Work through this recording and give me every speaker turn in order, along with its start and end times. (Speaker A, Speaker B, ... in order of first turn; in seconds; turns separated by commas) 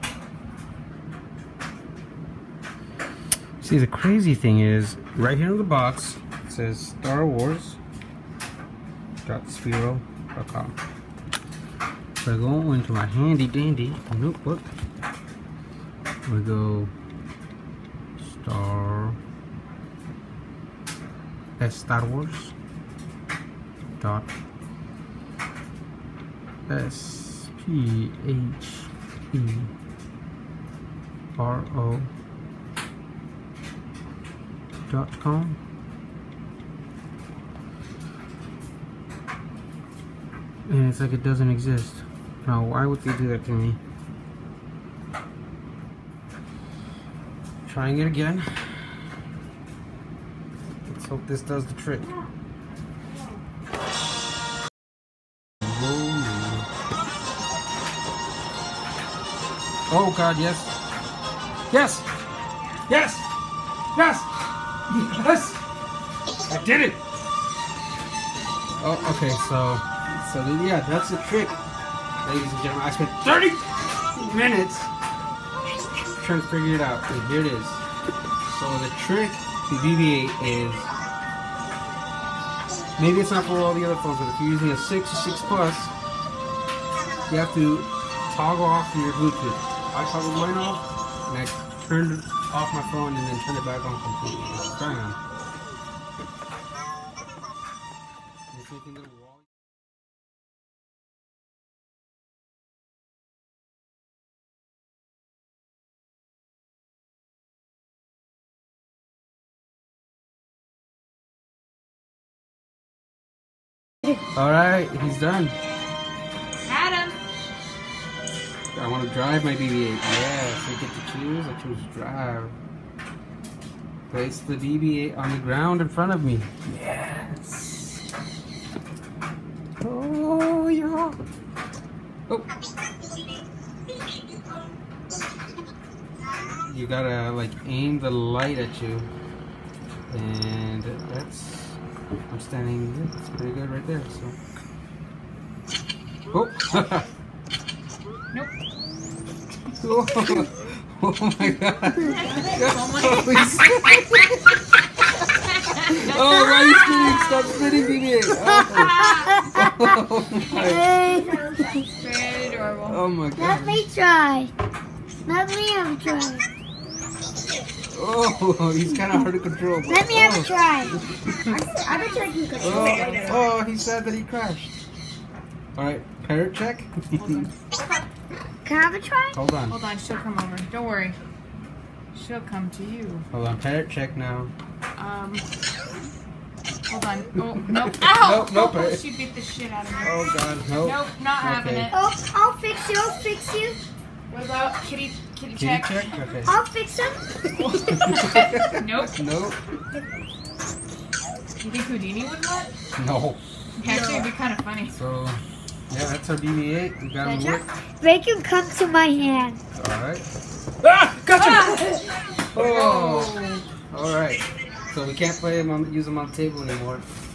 Speaker A: 3.6-7.8, Speaker A: 9.2-10.8, Speaker A: 12.2-14.7, Speaker A: 16.2-16.9, Speaker A: 18.2-19.2, Speaker A: 21.6-22.5, Speaker A: 24.0-24.3, Speaker A: 26.7-29.7, Speaker A: 31.4-32.1, Speaker A: 34.9-35.6, Speaker A: 40.7-43.8, Speaker A: 47.7-48.9, Speaker A: 50.9-52.1, Speaker B: 53.1-53.4, Speaker A: 55.6-56.7, Speaker A: 59.9-60.8, Speaker A: 61.7-62.1, Speaker B: 62.6-62.8, Speaker A: 62.9-63.3, Speaker A: 64.0-64.3, Speaker A: 64.9-65.6, Speaker A: 66.5-67.0, Speaker A: 68.8-71.6, Speaker A: 72.2-74.9, Speaker A: 76.0-77.8, Speaker A: 78.5-80.9, Speaker A: 83.0-85.9, Speaker A: 87.3-95.2, Speaker A: 98.5-99.4, Speaker A: 114.3-115.6, Speaker B: 116.7-117.2, Speaker A: 118.7-122.6, Speaker A: 124.1-128.0, Speaker A: 129.8-131.2, Speaker A: 136.5-139.1, Speaker A: 140.1-141.8, Speaker A: 142.3-144.4, Speaker A: 146.3-147.1, Speaker A: 149.8-154.4, Speaker B: 152.0-154.2, Speaker B: 155.6-156.2, Speaker A: 155.8-160.8, Speaker C: 156.2-157.7, Speaker B: 156.9-157.4, Speaker C: 158.4-159.9, Speaker B: 158.7-159.4, Speaker C: 160.6-161.8, Speaker B: 161.8-163.0, Speaker A: 162.9-163.8, Speaker C: 163.3-164.5, Speaker C: 165.3-166.5, Speaker A: 167.9-171.6, Speaker C: 169.9-171.0, Speaker C: 171.5-173.4, Speaker A: 172.6-174.8, Speaker A: 175.8-177.5, Speaker B: 177.2-177.9, Speaker C: 178.7-179.4, Speaker A: 179.3-179.8, Speaker B: 179.7-181.2, Speaker B: 182.1-183.3, Speaker A: 183.3-184.5, Speaker B: 184.9-185.5, Speaker B: 186.9-190.2, Speaker A: 187.7-189.0, Speaker A: 190.0-191.9, Speaker B: 190.7-192.0, Speaker C: 191.9-193.8, Speaker B: 194.3-196.5, Speaker A: 195.6-196.6, Speaker C: 196.4-197.7, Speaker A: 197.6-199.6, Speaker B: 197.9-199.2, Speaker B: 201.6-202.7, Speaker A: 203.0-203.4, Speaker B: 203.8-205.0, Speaker C: 203.8-204.3, Speaker A: 204.9-207.7, Speaker C: 207.2-209.6, Speaker A: 209.8-210.3, Speaker A: 210.8-211.8, Speaker B: 211.3-213.6, Speaker A: 212.5-217.1